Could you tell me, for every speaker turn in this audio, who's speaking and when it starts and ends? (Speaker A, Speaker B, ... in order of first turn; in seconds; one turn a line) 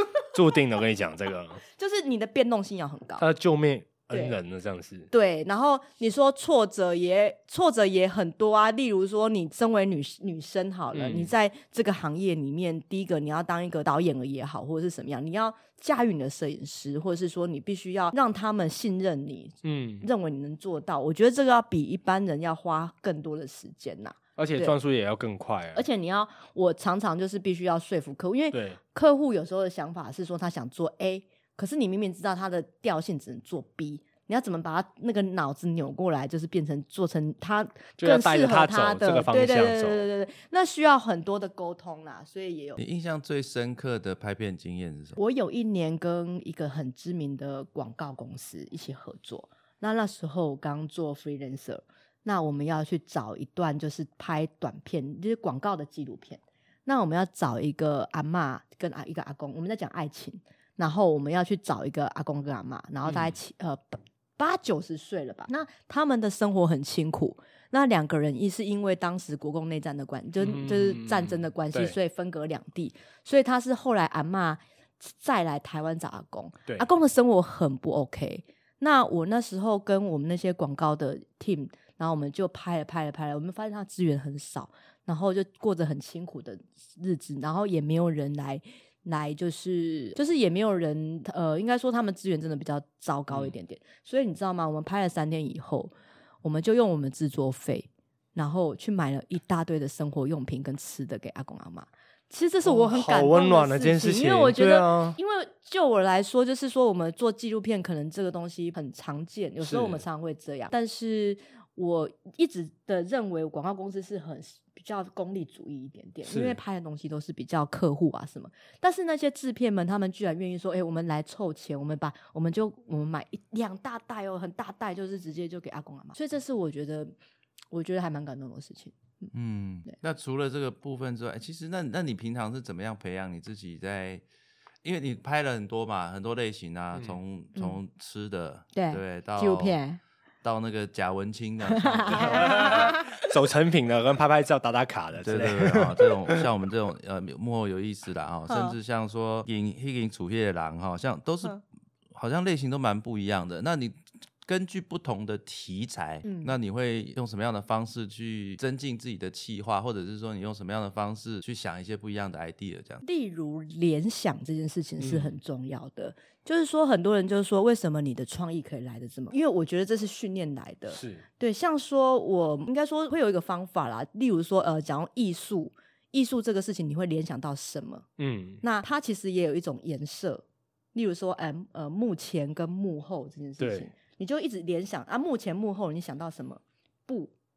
Speaker A: 0.1-1.6
Speaker B: 1.7-3.2
Speaker A: 3.2-5.1
Speaker B: 4.1-4.3
Speaker B: 5.1-24.7
Speaker A: 10.9-11.3
Speaker A: 19.6-20.1
Speaker A: 24.4-25.8
Speaker B: 25.7-42.8
Speaker A: 28.5-28.8
Speaker A: 38.0-40.1
Speaker C: 42.8-45.2
Speaker B: 45.2-95.9
Speaker A: 63.0-63.3
Speaker A: 70.4-72.0
Speaker B: 96.4-127.1
Speaker A: 102.6-105.2
Speaker A: 109.6-110.0
Speaker A: 116.2-116.6
Speaker B: 127.7-129.3
Speaker C: 129.3-134.2
Speaker C: 134.8-139.8
Speaker B: 138.7-140.0
Speaker C: 140.4-142.8
Speaker B: 141.8-143.1
Speaker A: 142.1-146.4
Speaker C: 145.2-151.6
Speaker B: 148.5-148.8
Speaker C: 152.1-163.0
Speaker B: 156.2-156.5
Speaker B: 163.0-178.0
Speaker A: 165.0-165.3
Speaker A: 170.9-171.2
Speaker A: 178.2-178.6
Speaker B: 178.6-187.3
Speaker A: 183.6-183.9